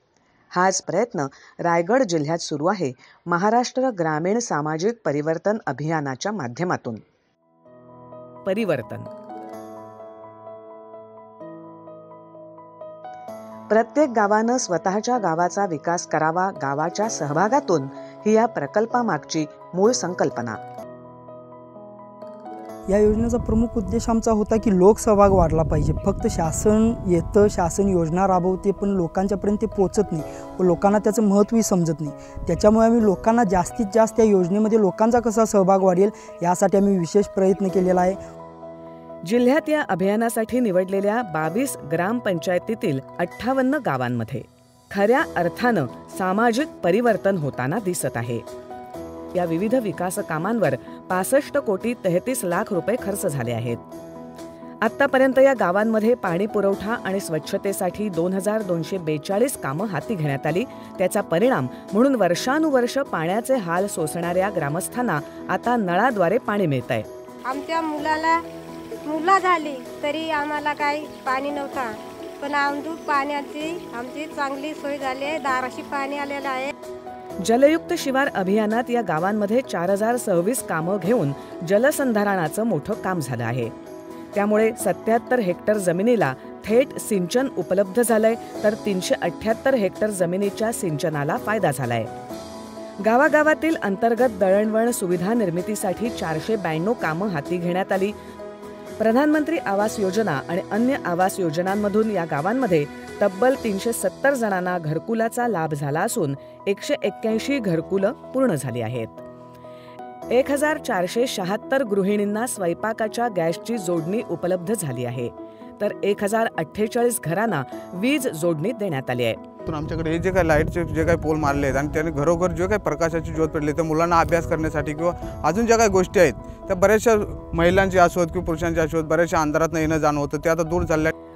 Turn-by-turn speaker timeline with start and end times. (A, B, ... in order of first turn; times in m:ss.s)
0:00.5-0:07.0 A
0:08.5-0:09.1 A
0:13.7-0:20.6 A
0:22.9-0:38.2 B
0:39.2-0:48.4 A
0:49.3-0:53.8 A
0:54.8-1:07.1 A
1:07.5-1:08.4 C
1:09.0-1:16.7 C
1:17.4-1:23.7 A
1:24.3-1:32.1 A
1:33.0-1:38.2 A
1:39.0-1:49.2 A
1:50.3-1:59.4 A
1:59.7-2:11.1 D